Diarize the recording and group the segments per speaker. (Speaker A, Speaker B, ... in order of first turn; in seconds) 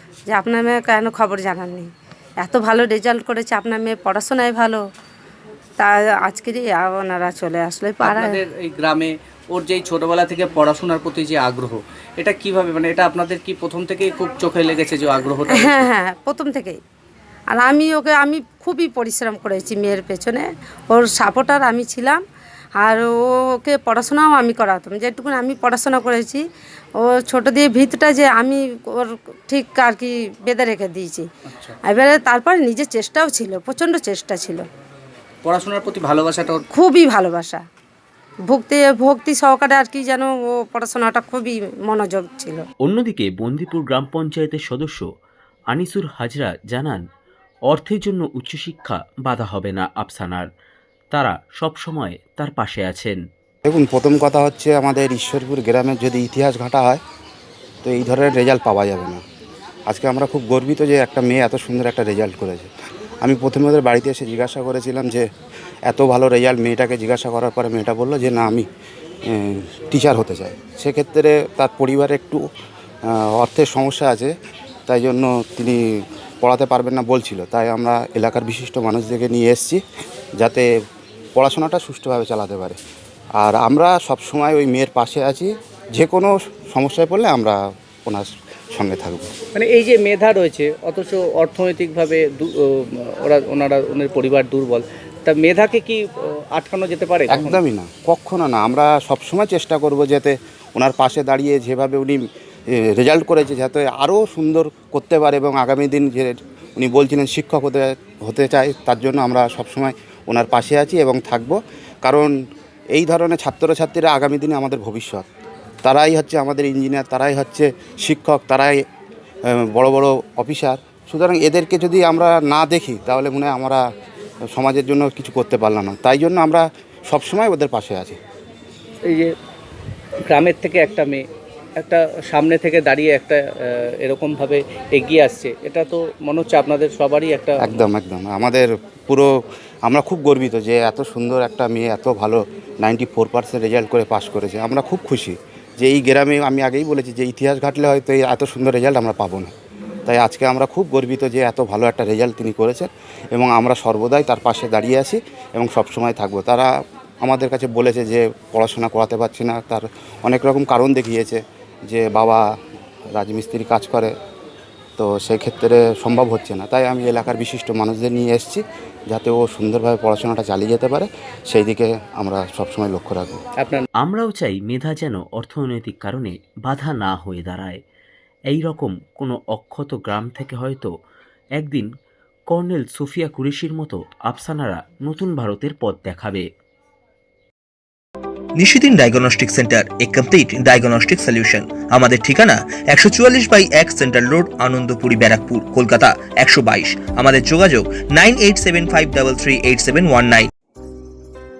Speaker A: 0.3-4.8, 5.8-8.4, 15.4-16.8, 17.5-22.2, 22.8-26.4, 27.0-31.3, 31.9-34.6, 36.7-37.6, 38.5-42.6
Speaker B: 8.0-15.9, 31.5-31.8, 35.4-36.6, 89.5-97.6, 129.0-129.3, 130.3-131.3, 131.8-137.8, 173.6-173.9
Speaker C: 42.8-45.1, 45.7-47.0, 47.7-50.5, 51.1-53.2, 174.0-177.8, 178.5-180.9, 181.6-181.9, 182.5-186.5
Speaker D: 53.7-57.0, 57.8-59.2, 59.9-62.7, 63.2-65.3, 65.9-68.7, 69.3-72.5, 73.1-74.3, 74.9-79.8, 80.4-80.7, 81.4-82.8, 83.4-89.3, 97.3-102.2, 102.7-112.3, 112.9-115.3, 115.8-118.8, 119.5-123.8, 124.5-128.2, 137.6-139.3, 139.9-149.5, 150.1-156.7, 157.2-162.4, 163.1-164.1, 165.0-173.4
Speaker E: 188.6-200.5